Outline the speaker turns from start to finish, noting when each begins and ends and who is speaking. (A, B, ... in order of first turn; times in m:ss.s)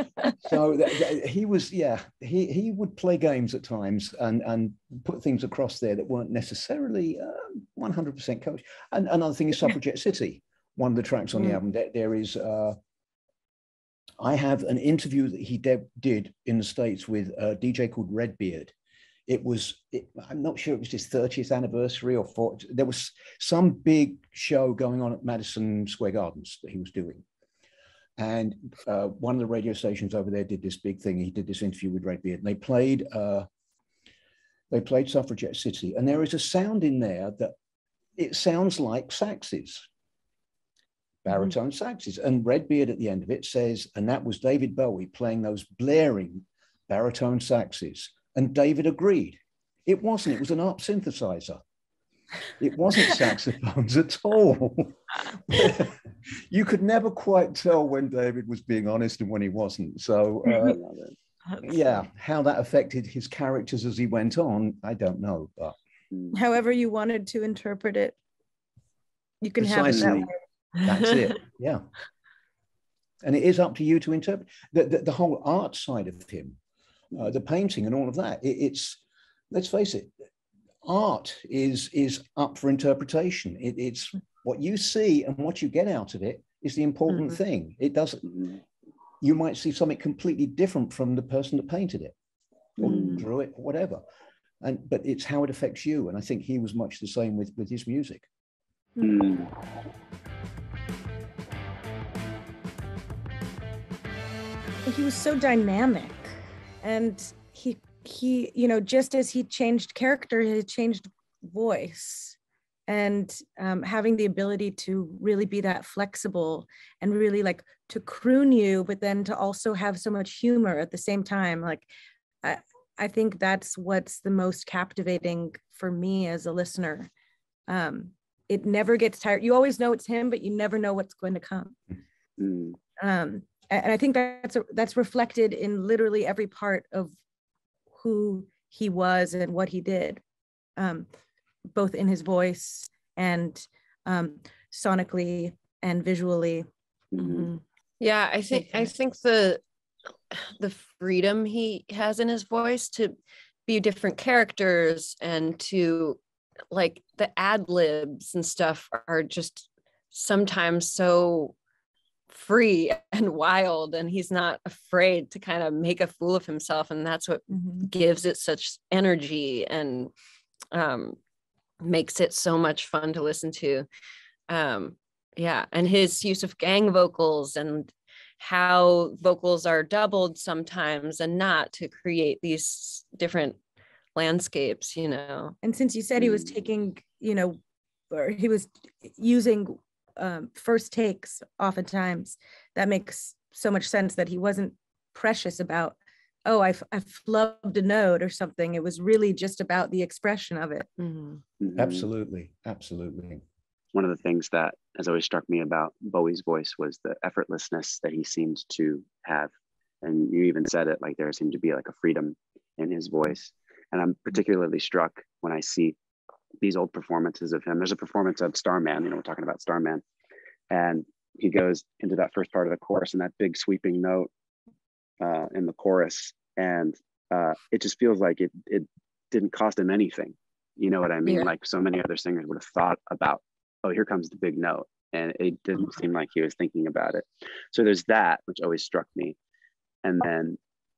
0:00.3-0:12.8 A
0:14.2-0:18.7 A
0:19.3-0:27.2 A
0:28.2-0:33.5 A
0:34.7-0:37.5 A
0:38.2-0:39.9 A
0:41.2-0:51.6 A
0:52.6-1:00.8 A
1:00.6-1:01.1 B
1:01.6-1:05.8 A
1:06.1-1:06.4 B
1:06.3-1:08.2 C
1:09.4-1:10.4 C
1:09.6-1:10.3 A
1:09.9-1:10.2 B
1:10.8-1:11.8 A
1:13.2-1:16.6 A
1:17.1-1:20.1 A
1:20.8-1:28.3 A
1:28.3-1:28.6 B
1:29.2-1:32.1 A
1:32.8-1:33.2 B
1:32.8-1:34.0 A
1:32.9-1:33.2 D
1:34.6-1:38.3 A
1:39.0-1:39.5 B
1:44.8-1:46.3 C
1:46.8-1:52.4 C
1:52.9-2:01.9 C
2:02.4-2:07.1 C
2:07.7-2:11.8 C
2:12.4-2:12.8 B
2:13.0-2:17.1 C
2:18.0-2:20.2 C
2:20.8-2:21.1 C
2:21.7-2:26.6 C
2:27.1-2:27.5 B
2:27.2-2:29.6 D
2:30.3-2:36.2 D
2:36.7-2:41.6 D
2:42.3-2:50.1 D
2:50.7-2:51.2 D
2:51.8-2:53.9 D
2:54.5-3:03.6 D
3:04.2-3:05.6 D
3:05.6-3:07.6 C
3:08.1-3:20.9 C
3:21.0-3:21.4 D
3:21.6-3:22.0 B
3:21.7-3:23.4 A
3:23.9-3:29.5 B
3:30.0-3:36.0 B
3:36.6-3:40.0 B
3:40.7-3:44.3 B
3:45.2-3:59.4 B
3:51.2-3:51.5 D
4:00.0-4:00.6 B